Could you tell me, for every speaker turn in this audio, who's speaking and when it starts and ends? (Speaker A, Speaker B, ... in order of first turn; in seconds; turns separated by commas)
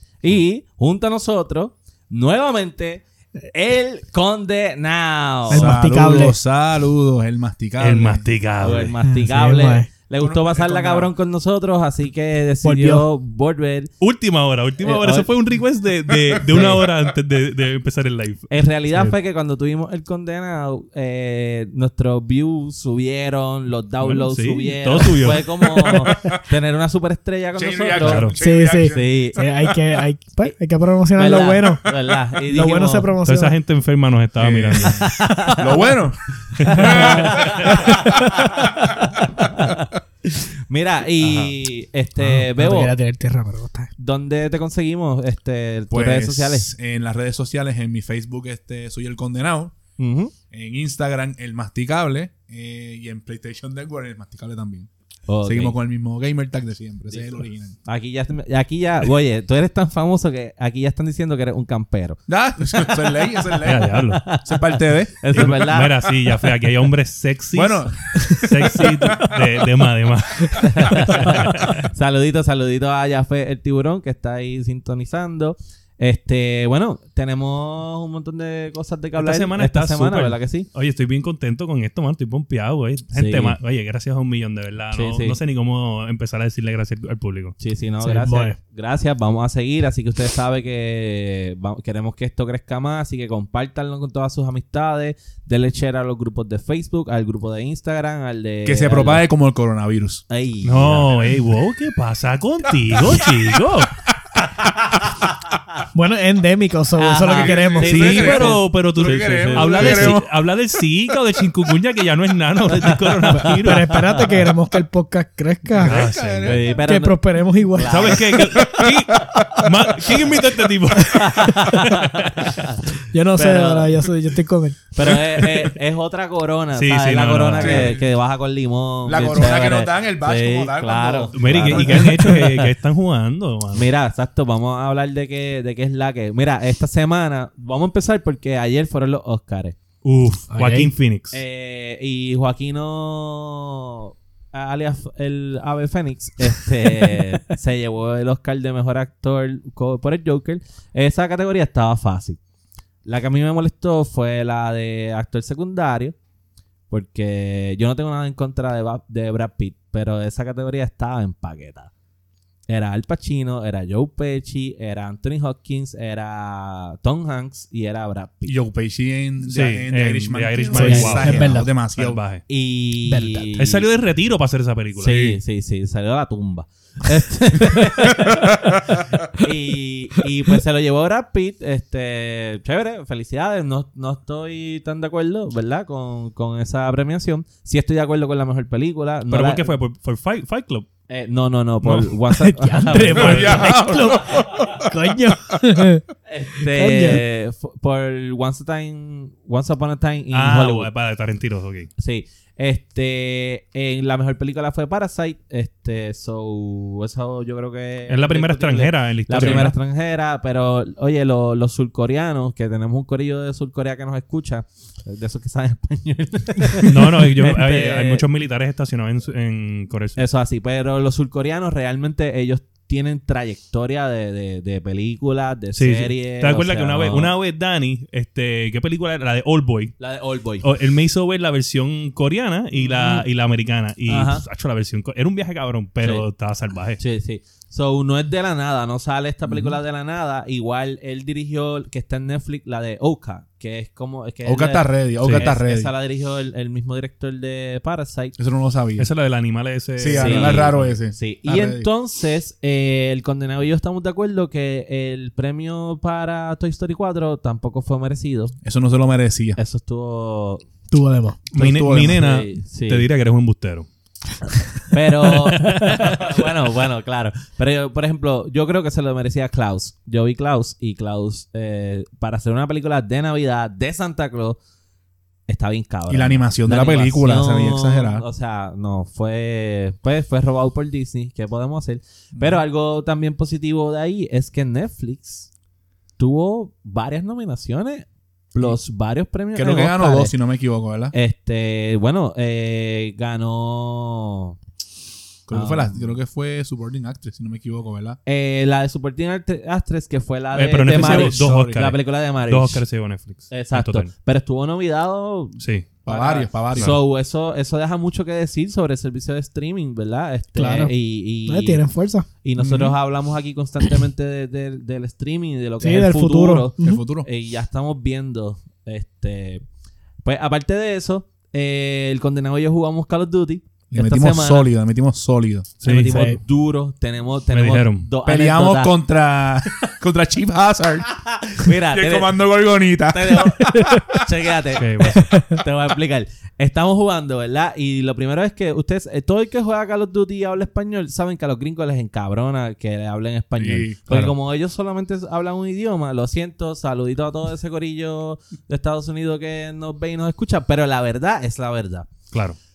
Speaker A: 0.2-5.8, Speaker B: 5.5-6.3, Speaker C: 5.5-8.3, Speaker D: 7.8-8.9, Speaker A: 8.6-13.9, Speaker B: 9.1-9.9, Speaker C: 10.2-11.1, Speaker B: 12.6-13.0, Speaker D: 14.0-19.1, Speaker A: 14.8-15.3, Speaker A: 16.5-16.8, Speaker A: 18.5-29.4, Speaker D: 24.0-25.9, Speaker C: 25.8-26.4, Speaker C: 27.5-29.8, Speaker D: 28.0-28.4, Speaker B: 28.4-33.5, Speaker A: 31.1-33.1, Speaker D: 33.2-35.1, Speaker C: 34.4-38.6, Speaker A: 34.9-35.9, Speaker D: 36.6-37.8, Speaker A: 36.6-42.9, Speaker B: 36.7-38.7, Speaker C: 39.2-39.7, Speaker D: 41.2-41.5, Speaker B: 42.2-43.9, Speaker A: 44.0-46.7, Speaker C: 45.9-49.7, Speaker A: 50.0-50.3, Speaker C: 50.5-54.9, Speaker A: 55.3-55.8, Speaker C: 55.4-57.8, Speaker A: 57.8-62.2, Speaker C: 62.3-65.5, Speaker A: 63.5-66.6, Speaker D: 63.6-64.2, Speaker D: 65.3-71.8, Speaker C: 67.5-69.4, Speaker A: 70.6-80.7, Speaker D: 79.2-87.5, Speaker A: 83.1-83.6, Speaker A: 84.9-85.4, Speaker A: 87.6-99.2, Speaker B: 88.0-88.5, Speaker C: 98.6-100.2, Speaker A: 100.3-101.1, Speaker D: 100.6-104.0, Speaker C: 102.9-103.4, Speaker C: 104.6-104.9, Speaker A: 105.5-105.8, Speaker B: 105.9-108.5, Speaker A: 107.0-110.2, Speaker C: 107.3-110.3, Speaker D: 107.8-114.0, Speaker A: 112.7-114.3, Speaker B: 113.5-116.0, Speaker C: 115.7-116.8, Speaker D: 115.8-116.6, Speaker A: 116.4-118.3, Speaker B: 116.6-118.3, Speaker D: 117.8-122.6, Speaker C: 118.6-120.2, Speaker B: 121.1-121.8, Speaker A: 121.2-122.8, Speaker B: 123.1-125.2, Speaker A: 123.3-124.1, Speaker A: 124.9-132.7, Speaker D: 126.7-128.0, Speaker C: 127.5-128.0, Speaker C: 129.0-132.3, Speaker D: 131.3-133.9, Speaker A: 133.7-139.8, Speaker D: 140.0-141.4, Speaker B: 140.5-140.9, Speaker A: 141.3-152.4, Speaker A: 153.0-156.2, Speaker A: 156.9-161.9, Speaker A: 162.7-168.6, Speaker C: 168.4-172.2, Speaker D: 169.4-172.4, Speaker B: 170.7-171.7, Speaker A: 170.8-171.5, Speaker A: 172.5-173.8, Speaker B: 173.1-173.5, Speaker D: 173.6-175.3, Speaker A: 175.0-178.8, Speaker C: 178.3-179.0, Speaker A: 179.4-189.7, Speaker D: 189.3-190.9, Speaker A: 191.1-193.8, Speaker D: 191.8-192.2, Speaker B: 192.4-196.0, Speaker D: 193.0-193.7, Speaker C: 193.1-195.3, Speaker A: 196.3-200.9, Speaker B: 196.7-197.2, Speaker D: 200.3-201.9, Speaker A: 202.0-218.2, Speaker D: 208.1-209.7, Speaker D: 216.8-220.2, Speaker A: 220.2-227.3, Speaker D: 225.7-230.0, Speaker A: 230.0-230.7, Speaker D: 230.6-237.0, Speaker A: 232.8-233.2, Speaker A: 234.1-234.4, Speaker A: 237.0-248.3, Speaker C: 244.4-245.9, Speaker C: 248.4-249.1, Speaker D: 249.0-251.0, Speaker C: 250.0-251.9, Speaker A: 250.2-258.5, Speaker C: 258.6-259.6, Speaker A: 259.6-260.6, Speaker B: 260.9-261.4, Speaker C: 261.5-262.2, Speaker D: 261.5-263.9, Speaker A: 262.1-263.0, Speaker A: 264.9-274.6, Speaker D: 265.5-266.1, Speaker A: 275.5-285.5, Speaker C: 276.1-278.2, Speaker C: 282.3-282.6, Speaker A: 286.2-290.3, Speaker C: 289.5-291.1, Speaker A: 291.1-294.6, Speaker C: 295.5-298.2, Speaker A: 295.5-296.2, Speaker A: 298.2-302.8, Speaker D: 300.5-304.1, Speaker C: 300.9-301.8, Speaker A: 303.5-311.8, Speaker D: 305.6-305.9, Speaker C: 306.1-306.9, Speaker B: 310.6-310.9, Speaker B: 311.4-312.3, Speaker A: 312.4-319.6, Speaker C: 312.6-312.9, Speaker B: 315.8-317.0, Speaker C: 316.8-317.3, Speaker A: 320.2-324.7, Speaker C: 323.9-325.8, Speaker D: 325.8-326.4, Speaker A: 325.8-328.9, Speaker B: 326.1-326.4, Speaker D: 327.5-328.1, Speaker C: 328.2-334.2, Speaker A: 331.4-332.4, Speaker A: 333.1-335.0, Speaker D: 334.8-335.4, Speaker B: 335.1-335.6, Speaker A: 335.5-352.1, Speaker C: 343.6-344.0, Speaker D: 352.3-352.6